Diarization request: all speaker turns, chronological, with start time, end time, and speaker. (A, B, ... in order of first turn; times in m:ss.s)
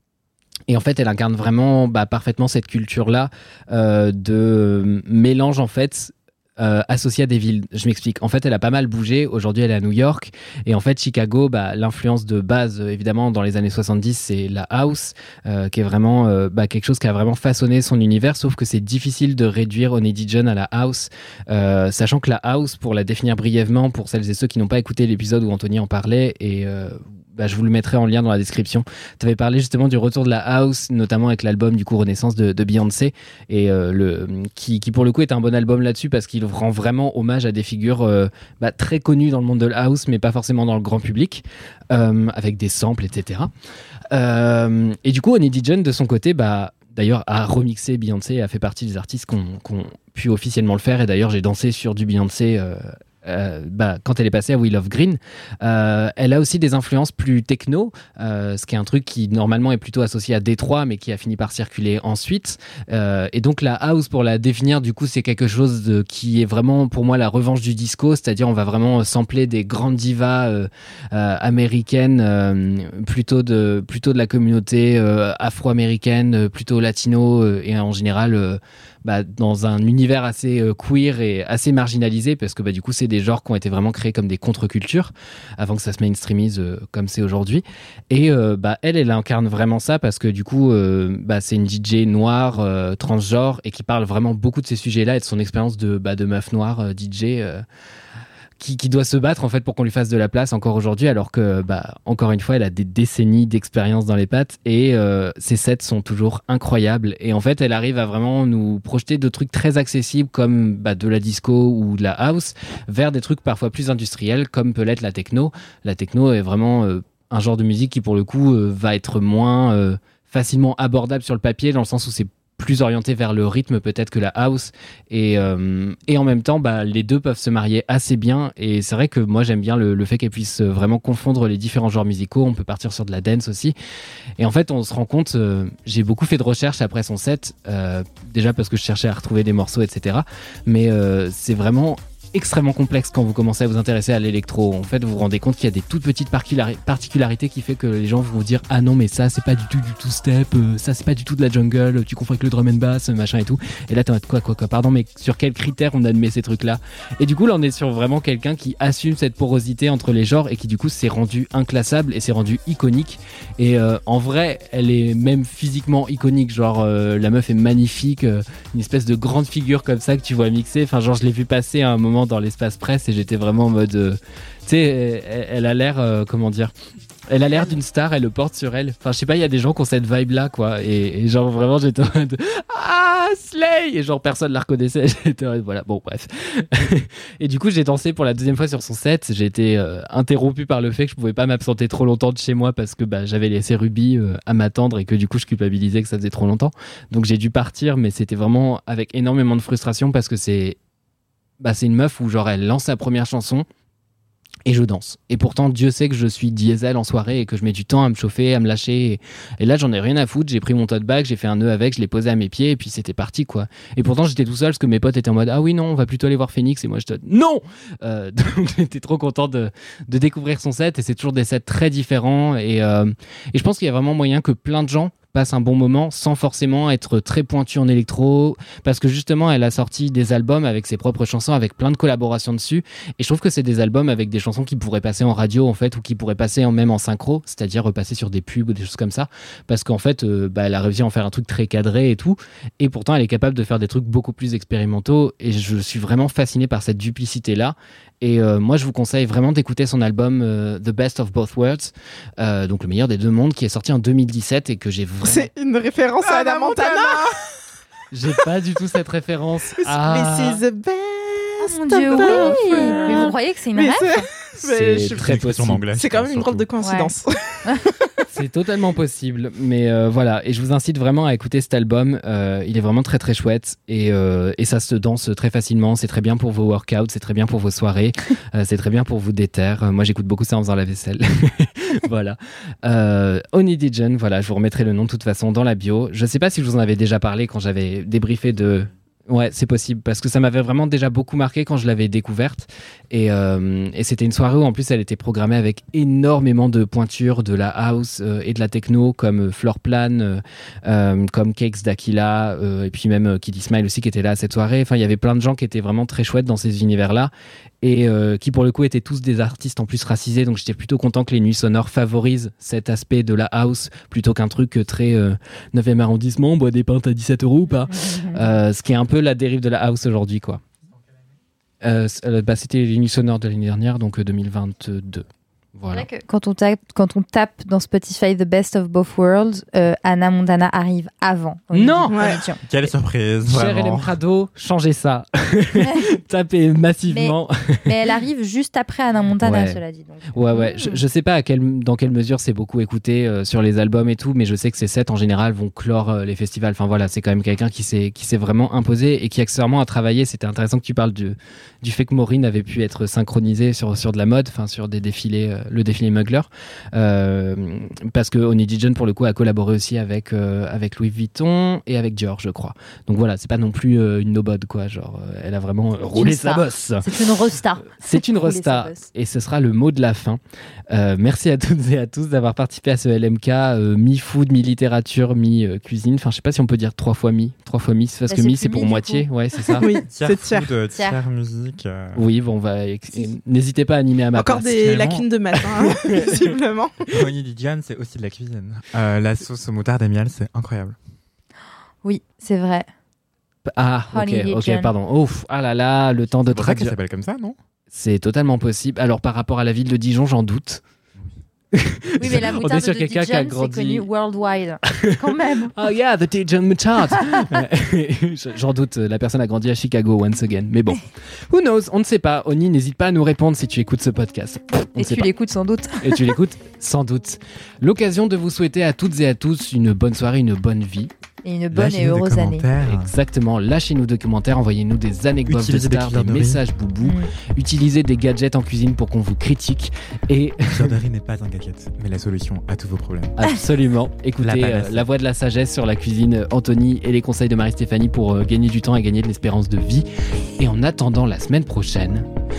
0:00.7-0:43.5 A
0:44.1-1:37.6 A
1:38.6-2:13.8 A
2:14.4-2:56.7 A
2:57.3-3:20.8 A
3:21.6-3:23.7 A
3:24.7-4:15.5 A
4:15.2-4:17.4 B
4:18.1-4:20.6 A
4:19.8-4:25.2 B
4:21.6-4:24.3 C
4:22.3-4:23.1 A
4:24.6-4:25.9 A
4:25.1-4:26.7 D
4:25.9-4:28.2 B
4:26.8-4:27.1 C
4:28.3-5:20.6 A
5:17.9-5:18.5 C
5:21.8-5:26.1 A
5:25.9-5:32.6 C
5:31.7-5:32.2 A
5:32.1-5:32.4 B
5:32.6-5:34.1 D
5:33.5-5:37.9 A
5:37.1-5:41.0 C
5:39.4-5:39.8 A
5:40.3-6:07.1 A
6:06.1-6:09.1 C
6:08.0-6:19.8 A
6:18.3-6:20.0 C
6:19.8-6:20.7 B
6:20.1-6:22.2 D
6:20.9-6:21.2 C
6:22.2-6:24.7 A
6:24.4-6:27.1 B
6:24.7-6:25.3 D
6:25.9-6:26.5 A
6:27.1-6:31.0 D
6:32.0-6:32.9 C
6:33.7-6:37.0 A
6:34.1-6:34.9 C
6:36.5-6:37.6 D
6:37.9-6:40.8 A
6:41.7-6:44.1 A
6:42.2-6:45.7 C
6:44.9-6:45.2 A
6:45.7-6:55.3 A
6:47.2-6:47.5 C
6:55.0-6:56.3 C
6:56.0-7:01.1 A
7:01.4-7:02.7 C
7:01.7-7:03.1 D
7:02.8-7:11.0 A
7:05.5-7:06.6 D
7:07.0-7:07.3 C
7:10.6-7:13.4 D
7:13.4-7:20.1 A
7:14.4-7:15.0 D
7:20.6-7:22.3 A